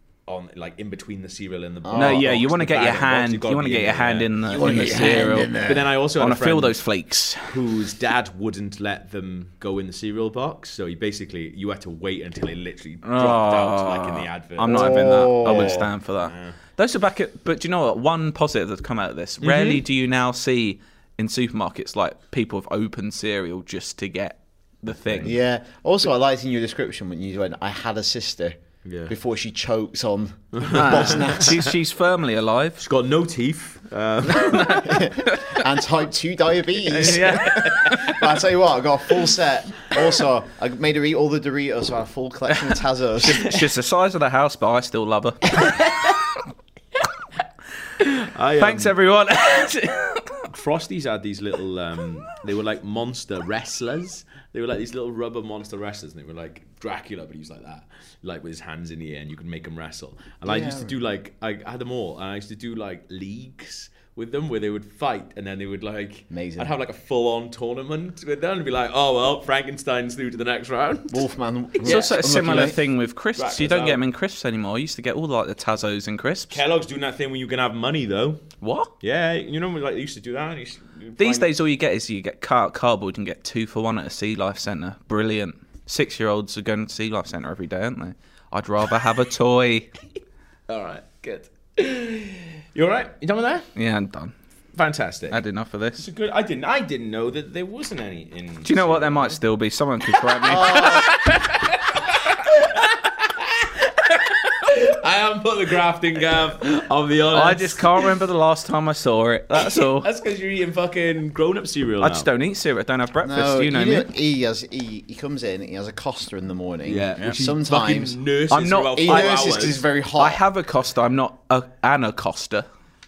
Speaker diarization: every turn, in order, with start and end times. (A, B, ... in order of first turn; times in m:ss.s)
0:00.3-0:06.8 A
0:01.8-0:02.4 B
0:01.9-0:05.5 C
0:04.5-0:05.9 B
0:06.2-0:07.6 C
0:07.4-0:16.6 A
0:13.0-0:25.4 C
0:14.6-0:15.9 B
0:19.4-0:19.8 A
0:25.1-0:25.3 A
0:25.2-0:31.7 B
0:28.8-0:29.1 A
0:30.6-0:31.3 A
0:30.7-0:32.8 C
0:32.8-0:35.0 A
0:34.4-0:35.6 C
0:34.7-0:43.6 B
0:36.8-0:38.2 C
0:43.2-0:45.8 C
0:48.3-0:49.0 A
0:48.6-0:50.5 C
0:50.5-1:11.3 A
1:00.5-1:01.0 B
1:06.3-1:06.7 B
1:11.1-1:12.8 B
1:11.8-1:12.2 A
1:11.8-1:16.6 C
1:13.4-1:14.0 A
1:16.5-1:18.5 A
1:18.6-1:18.9 C
1:19.0-1:21.5 A
1:21.2-1:29.9 C
1:30.7-1:33.7 A
1:33.8-1:34.3 C
1:34.7-1:35.4 A
1:35.3-1:36.0 C
1:36.0-1:39.4 A
1:38.6-1:41.5 C
1:40.3-1:48.2 A
1:47.3-1:50.1 C
1:49.7-1:52.3 A
1:52.0-1:54.1 C
1:53.2-1:58.2 B
1:56.8-1:59.8 A
1:58.5-2:02.7 C
1:58.9-2:00.4 B